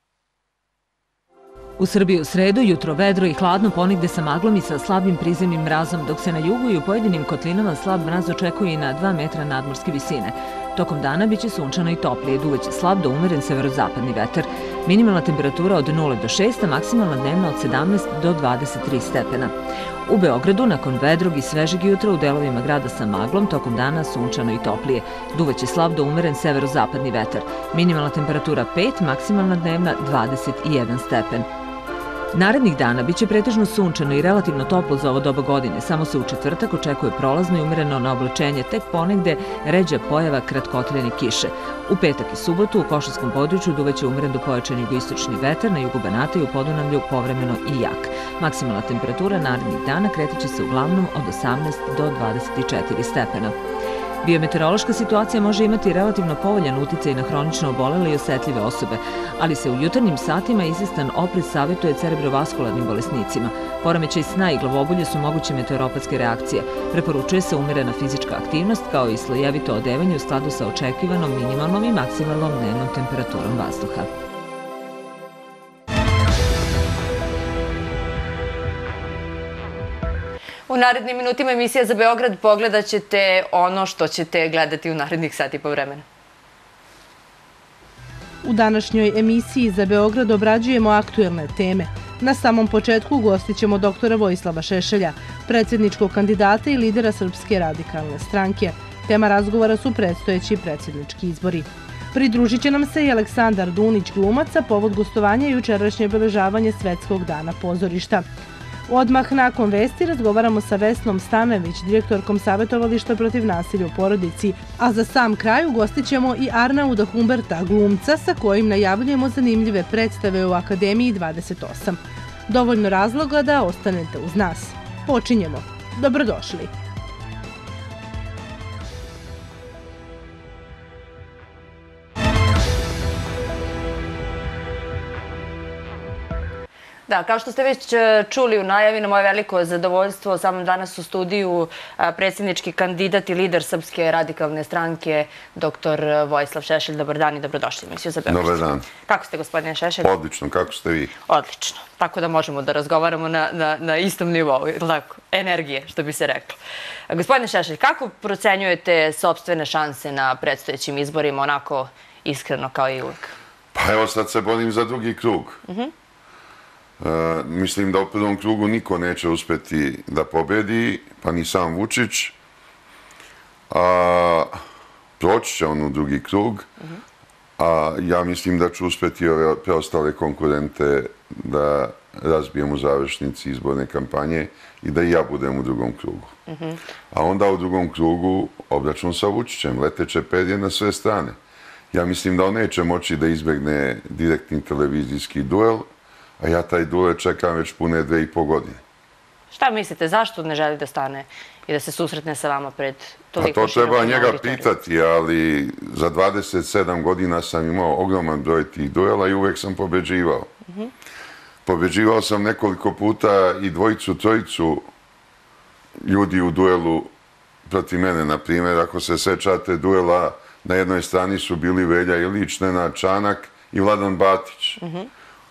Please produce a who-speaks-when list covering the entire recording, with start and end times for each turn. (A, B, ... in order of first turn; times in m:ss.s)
0:01.8-0:19.5 A
0:20.1-0:31.4 A
0:32.3-0:53.5 A
0:54.2-1:14.1 A
1:20.7-1:26.0 B
1:28.4-1:48.2 C
1:48.9-2:06.7 C
2:17.1-2:30.1 B
2:28.3-2:28.9 D
2:30.0-2:31.1 D
2:31.3-2:36.6 B
2:37.1-2:43.3 B
2:43.7-2:45.6 D
2:47.0-2:52.3 D
2:53.7-2:54.6 D
2:55.2-2:56.7 D
2:57.6-3:06.3 D
3:06.5-3:06.8 B
3:07.1-3:11.4 D
3:11.9-3:18.8 D
3:19.5-3:24.7 B
3:23.4-3:30.5 D
3:31.6-3:34.9 D
3:36.0-3:37.1 D
3:37.6-3:44.8 D
3:44.8-3:45.1 B